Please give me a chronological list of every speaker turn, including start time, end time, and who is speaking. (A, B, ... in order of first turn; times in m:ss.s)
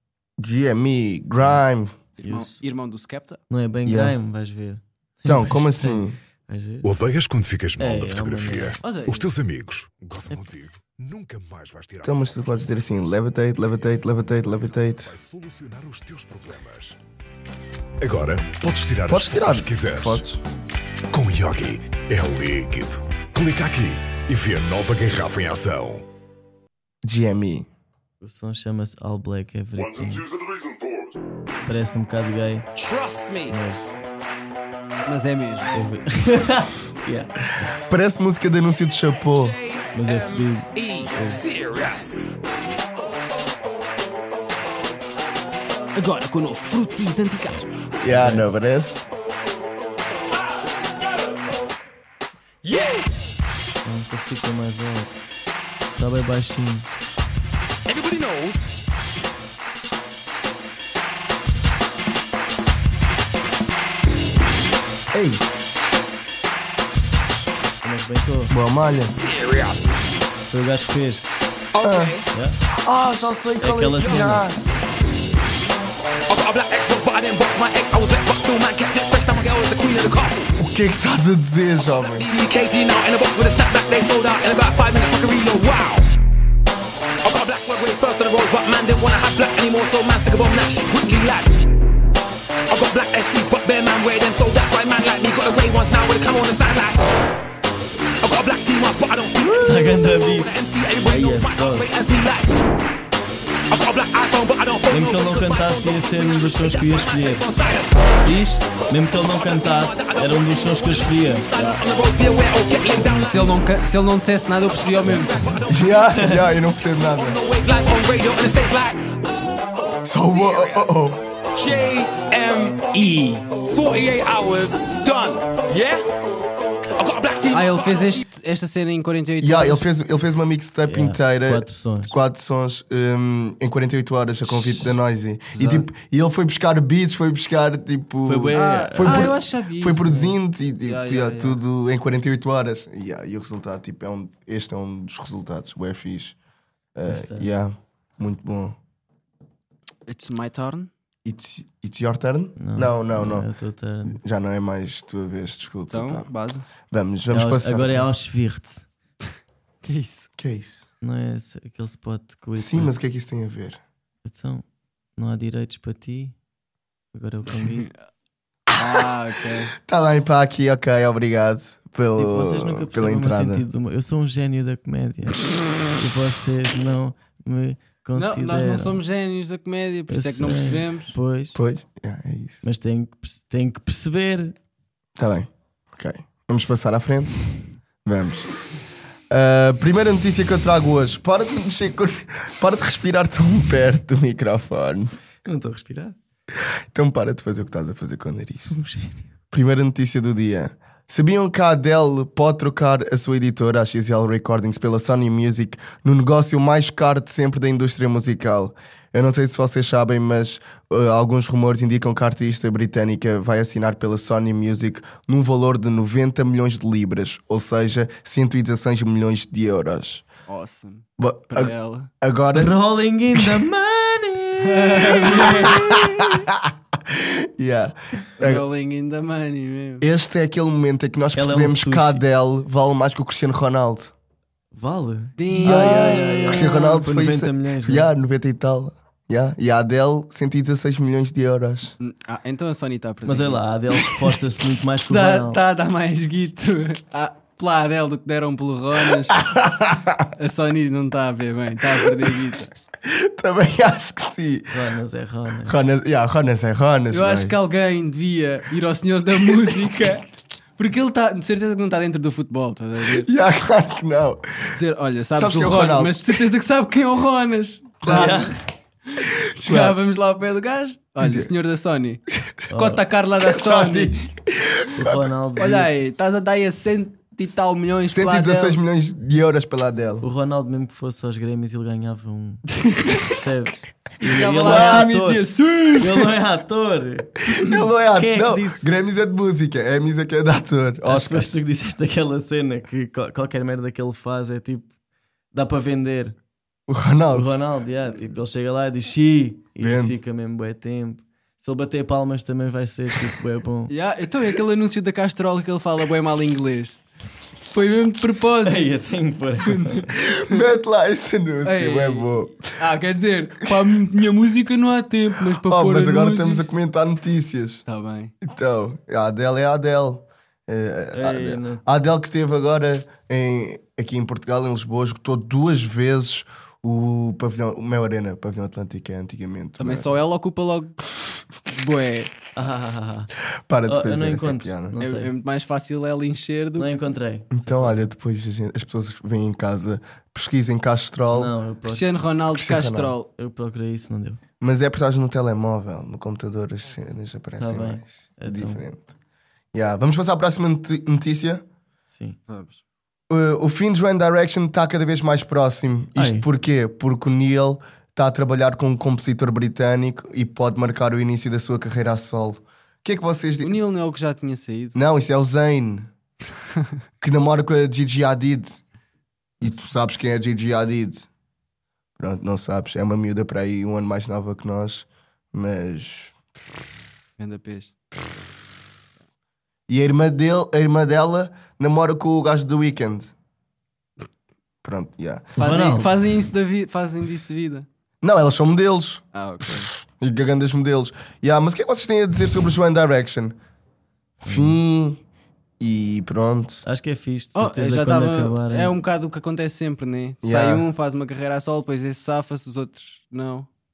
0:00.4-0:02.0 A
0:02.2-0:03.4 B
0:02.2-0:02.6 C
0:03.5-0:06.9 C
0:03.8-0:04.2 A
0:05.2-0:06.2 A
0:06.8-0:14.3 D
0:07.8-0:08.8 C
0:08.8-0:09.3 B
0:12.0-0:15.1 A
0:15.0-0:17.0 D
0:18.0-0:20.2 D
0:19.1-0:20.4 A
0:21.1-0:26.0 D
0:27.0-0:27.7 A
0:28.2-0:30.3 C
0:31.6-0:32.7 C
0:32.7-0:33.6 E
0:33.5-0:34.0 C
0:35.0-0:35.7 B
0:35.7-0:37.3 C
0:37.9-0:39.6 A
0:39.3-0:42.3 E
0:39.9-0:41.4 C
0:48.0-0:49.0 A
0:48.1-0:48.5 C
0:52.6-0:53.0 E
0:53.8-0:55.1 C
0:56.0-0:56.9 C
0:57.8-0:58.7 E
1:05.1-1:05.4 A
1:07.8-1:08.5 C
1:08.5-1:09.2 A
1:09.1-1:10.1 E
1:10.5-1:11.2 C
1:11.7-1:12.2 E
1:11.8-1:12.2 A
1:12.3-1:12.6 C
1:12.8-1:14.6 A
1:13.6-1:14.5 C
1:14.0-1:14.4 E
1:16.3-1:20.5 E
1:20.6-1:22.3 A
1:22.0-1:26.1 E
1:27.2-1:31.5 E
1:32.7-1:37.0 E
1:38.2-1:42.6 E
1:39.4-1:41.9 C
1:43.7-1:48.4 E
1:44.9-1:47.5 C
1:48.2-1:48.6 B
1:48.9-1:51.5 C
1:49.2-1:53.7 E
1:51.5-1:51.8 B
1:53.0-1:55.4 B
1:55.0-1:55.5 C
1:55.0-1:59.2 E
1:55.7-1:57.4 A
2:00.0-2:01.2 A
2:00.2-2:06.0 E
2:06.9-2:08.2 E
2:07.5-2:09.8 B
2:09.4-2:26.4 A
2:10.9-2:12.1 C
2:15.5-2:15.9 B
2:18.2-2:19.3 C
2:18.5-2:21.6 B
2:26.9-2:28.8 A
2:27.1-2:27.5 C
2:30.1-2:30.9 B
2:31.2-2:33.5 A
2:32.6-2:34.2 C
2:34.1-2:36.3 A
2:35.9-2:36.6 B
2:36.9-2:38.1 A
2:37.3-2:38.9 C
2:39.8-2:40.3 B
2:40.4-2:40.8 A
2:41.0-2:42.9 C
2:42.6-2:43.8 A
2:44.2-2:44.6 C
2:45.2-2:46.3 C
2:47.1-2:47.9 C
2:48.7-2:49.7 B
2:49.8-2:53.6 A
2:52.2-2:59.0 C
2:58.1-3:01.1 B
3:00.1-3:01.6 C
3:01.5-3:02.6 A
3:02.6-3:04.6 C
3:05.2-3:07.4 A
3:08.0-3:08.5 A
3:09.3-3:15.1 A
3:15.4-3:16.2 C
3:16.9-3:18.7 A
3:18.7-3:19.3 C
3:19.5-3:40.2 A
3:40.5-3:42.1 B
3:41.2-3:42.7 A
3:42.5-3:46.4 C
3:44.6-3:45.7 B
3:45.2-3:48.6 A
3:48.4-3:50.0 B
3:50.0-3:54.1 A
3:51.4-3:52.2 C
3:54.7-3:58.1 C
3:55.4-3:57.0 B
3:55.6-4:01.9 A
4:02.0-4:03.6 B
4:03.2-4:05.6 C
4:05.1-4:09.4 B
4:09.4-4:10.2 A
4:10.4-4:12.7 B
4:13.0-4:14.7 A
4:14.7-4:15.8 C
4:15.6-4:17.5 A
4:17.1-4:20.2 B
4:20.8-4:23.3 B
4:23.1-4:24.7 A
4:24.7-4:28.5 B
4:25.3-4:26.4 A
4:28.0-4:28.4 A
4:28.0-4:28.5 C
4:29.6-4:30.0 A
4:29.6-4:32.2 B
4:31.2-4:31.5 A
4:32.7-4:33.0 C
4:32.7-4:34.2 B
4:33.4-4:35.3 A
4:35.0-4:35.9 C
4:35.6-4:38.8 B
4:38.1-4:40.2 A
4:40.2-4:48.9 C
4:44.2-4:46.1 B
4:44.6-4:45.0 A
4:47.5-4:51.6 A
4:51.0-4:54.9 C
4:55.5-4:56.4 C
4:56.9-4:57.6 A
4:57.3-5:03.9 C
4:59.8-5:00.2 A
5:03.9-5:07.0 B
5:07.7-5:09.0 B
5:08.6-5:10.1 C
5:09.7-5:10.0 B
5:10.2-5:12.6 A
5:11.6-5:16.6 B
5:15.6-5:17.8 A
5:17.9-5:18.3 B
5:18.4-5:30.2 A
5:21.1-5:21.8 C
5:29.8-5:30.9 B
5:31.7-5:32.3 B
5:32.5-5:33.3 C
5:33.7-5:35.0 A
5:33.8-5:35.3 C
5:35.0-5:36.9 B
5:36.8-5:38.1 C
5:37.5-5:41.5 A
5:41.3-5:42.1 C
5:41.8-5:43.3 B
5:42.5-5:43.1 A
5:43.4-5:44.4 C
5:44.6-5:49.1 A
5:47.6-5:48.8 C
5:49.7-5:51.6 A
5:52.1-5:52.4 C
5:52.5-5:52.8 B
5:53.3-6:03.8 A
5:56.2-5:56.5 C
6:03.6-6:05.0 B
6:04.9-6:06.1 A
6:07.2-6:08.8 A
6:09.6-6:11.3 A
6:12.2-6:16.4 A
6:17.4-6:18.0 B
6:19.9-6:23.3 A
6:24.8-6:25.9 A
6:25.6-6:26.1 C
6:25.6-6:27.8 B
6:28.2-6:33.6 A
6:29.3-6:29.9 B
6:34.4-6:35.2 A
6:34.4-6:34.8 C
6:35.8-6:36.8 A
6:36.8-6:39.0 C
6:37.5-6:43.7 B
6:40.4-6:40.9 A